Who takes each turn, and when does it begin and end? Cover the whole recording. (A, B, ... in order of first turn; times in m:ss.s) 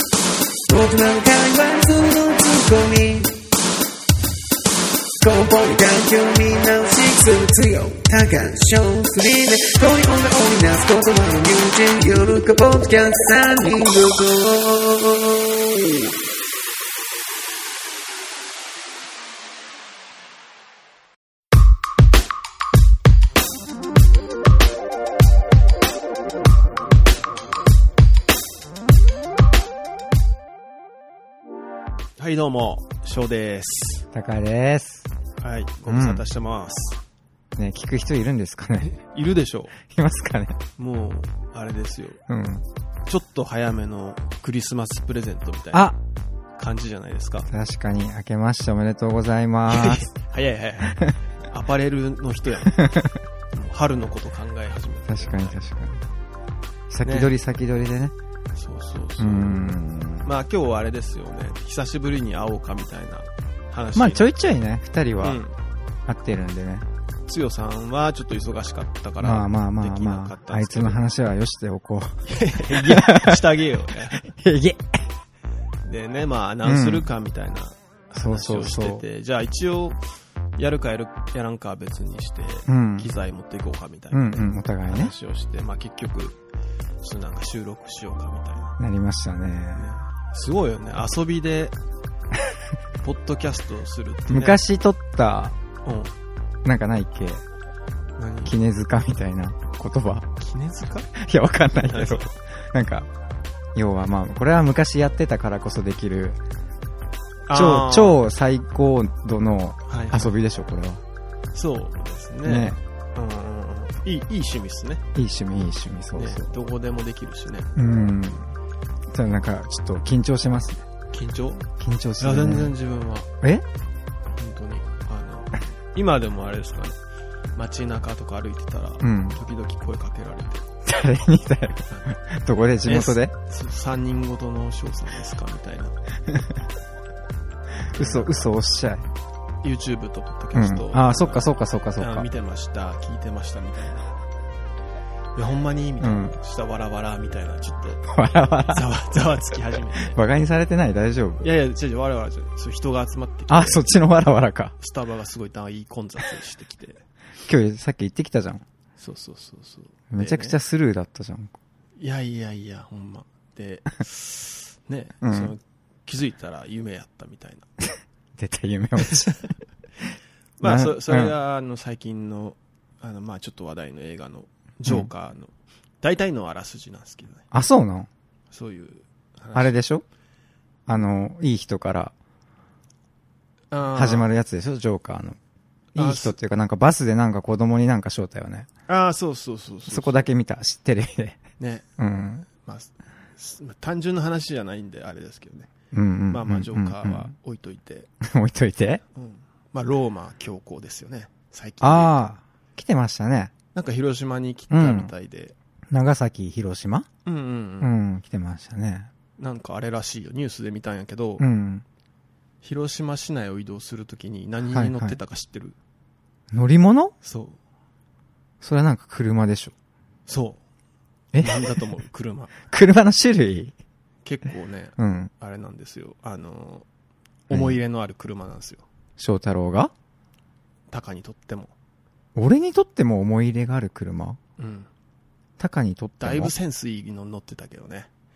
0:00.7-0:03.4 A
0:05.2-0:16.1 A
0:32.2-0:34.1 B
0:34.1-0:35.1 C
0:35.4-0:37.0 B
0:35.9-0:36.2 C
0:37.6-0:39.0 C
0:38.8-0:39.8 B
0:39.8-0:40.6 C
0:40.8-0:42.2 B
0:42.3-0:42.6 C
0:43.1-0:45.9 B
0:45.7-0:46.0 C
0:46.6-0:47.5 B
0:47.5-0:50.1 C
0:49.7-0:55.6 B
0:50.9-0:51.2 C
0:52.8-0:53.1 C
0:55.1-0:56.0 C
0:56.9-0:58.1 C
0:57.0-0:57.3 B
0:58.6-0:59.6 B
0:59.2-1:00.3 C
1:00.2-1:04.3 B
1:03.9-1:05.4 C
1:05.2-1:05.5 B
1:06.0-1:06.9 C
1:07.3-1:11.0 B
1:09.2-1:13.6 C
1:12.2-1:14.3 B
1:14.2-1:14.8 C
1:15.8-1:20.0 B
1:16.6-1:17.1 C
1:18.1-1:19.0 C
1:20.6-1:26.4 B
1:22.7-1:23.1 C
1:24.1-1:25.1 C
1:27.0-1:28.8 B
1:28.8-1:29.9 C
1:29.8-1:31.7 B
1:33.0-1:34.6 B
1:34.3-1:35.6 C
1:35.8-1:36.1 B
1:36.6-1:37.4 C
1:38.2-1:38.5 B
1:38.4-1:40.3 C
1:40.4-1:41.1 B
1:41.1-1:43.1 C
1:41.8-1:42.3 B
1:43.7-1:46.4 C
1:47.5-1:48.2 B
1:47.5-1:51.0 C
1:49.9-1:50.3 B
1:51.5-1:55.0 B
1:52.4-1:52.8 C
1:55.1-1:56.5 C
1:56.1-1:57.8 B
1:57.8-1:58.5 C
1:59.1-2:00.9 C
2:01.1-2:03.3 B
2:01.8-2:02.7 C
2:04.4-2:07.0 B
2:07.6-2:10.6 B
2:09.0-2:09.4 C
2:10.8-2:13.3 C
2:12.8-2:16.0 B
2:17.8-2:18.5 B
2:17.9-2:19.0 C
2:19.6-2:24.1 B
2:20.5-2:22.3 C
2:25.4-2:28.0 B
2:26.0-2:26.4 C
2:28.0-2:28.9 C
2:28.7-2:30.2 B
2:29.5-2:31.5 C
2:31.4-2:33.9 B
2:33.5-2:34.7 C
2:34.8-2:37.0 B
2:37.4-2:38.6 C
2:39.0-2:40.6 B
2:40.1-2:41.6 C
2:42.0-2:47.6 B
2:45.2-2:45.5 C
2:48.4-2:49.4 C
2:49.1-2:49.4 B
2:50.6-2:57.4 B
2:50.6-2:51.3 C
2:57.5-2:58.1 C
2:58.5-2:59.8 B
2:59.5-3:00.0 C
3:00.9-3:02.1 C
3:03.7-3:04.3 B
3:03.9-3:05.4 C
3:05.9-3:06.4 B
3:06.0-3:08.7 C
3:08.9-3:10.3 B
3:09.9-3:11.4 C
3:11.6-3:11.8 B
3:12.0-3:12.4 C
3:12.4-3:15.7 B
3:15.9-3:17.3 C
3:16.3-3:18.1 B
3:18.2-3:19.0 C
3:19.1-3:22.2 B
3:21.8-3:23.5 C
3:23.7-3:25.5 B
3:24.7-3:25.1 C
3:25.9-3:27.1 C
3:27.2-3:27.9 B
3:27.8-3:29.1 C
3:29.4-3:31.4 B
3:31.4-3:31.8 C
3:32.6-3:35.8 B
3:34.7-3:35.2 C
3:36.5-3:37.1 C
3:37.2-3:37.6 B
3:38.6-3:39.7 C
3:40.3-3:40.6 B
3:41.3-3:41.9 C
3:41.4-3:42.6 B
3:42.7-3:43.7 C
3:44.2-3:46.8 B
3:45.0-3:45.3 C
3:47.5-3:48.8 B
3:47.5-3:47.8 C
3:49.2-3:49.9 C
3:50.9-3:51.7 B
3:52.3-3:54.4 C
3:54.6-3:54.9 B
3:55.6-3:56.5 C
3:56.2-3:58.1 B